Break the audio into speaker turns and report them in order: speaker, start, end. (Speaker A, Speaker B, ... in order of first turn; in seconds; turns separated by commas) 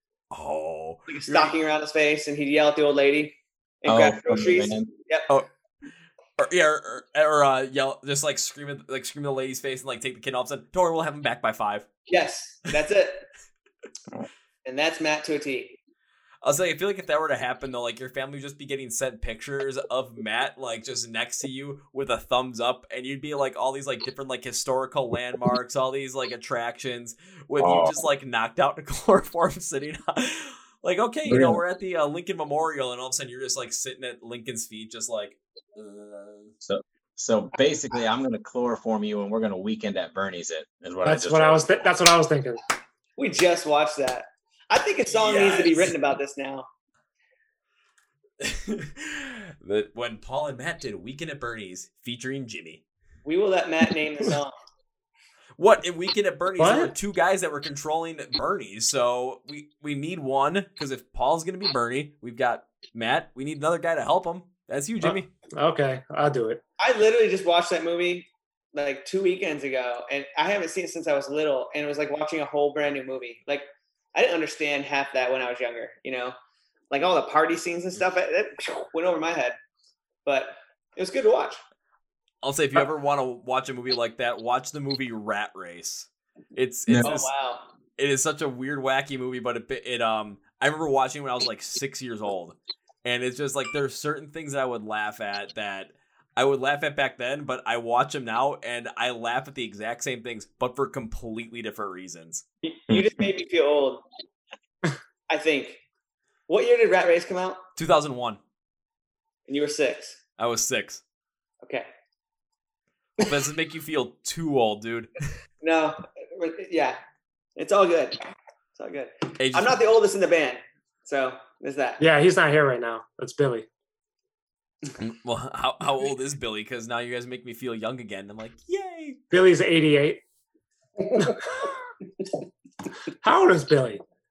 Speaker A: 0.3-1.5, Speaker B: 1.1-5.3, Speaker C: 3.9-4.9, Speaker A: 6.4-11.8, Speaker B: 12.1-13.2, Speaker B: 14.6-15.8, Speaker A: 16.4-36.5, Speaker C: 27.6-27.9, Speaker C: 31.3-31.6, Speaker C: 36.6-41.9, Speaker D: 41.0-42.6, Speaker B: 43.2-46.7, Speaker A: 45.2-45.9, Speaker A: 48.4-52.8, Speaker B: 53.2-54.5, Speaker A: 55.6-65.3, Speaker D: 56.6-56.9, Speaker D: 65.0-66.6, Speaker B: 66.8-76.3, Speaker B: 76.9-79.6, Speaker B: 80.2-81.6, Speaker A: 82.4-87.3, Speaker C: 86.9-87.2, Speaker B: 87.0-87.7, Speaker A: 88.0-102.4, Speaker B: 102.6-104.0, Speaker C: 102.9-103.2, Speaker B: 105.3-105.8, Speaker B: 106.5-107.6, Speaker A: 107.8-108.4, Speaker B: 109.5-110.2, Speaker A: 110.4-111.0, Speaker B: 111.6-111.9, Speaker A: 113.2-115.3, Speaker B: 115.6-117.0, Speaker B: 117.5-122.0, Speaker A: 119.4-119.8, Speaker D: 122.0-123.7, Speaker A: 125.0-129.2, Speaker D: 129.3-130.2, Speaker D: 131.1-131.8, Speaker D: 133.2-134.0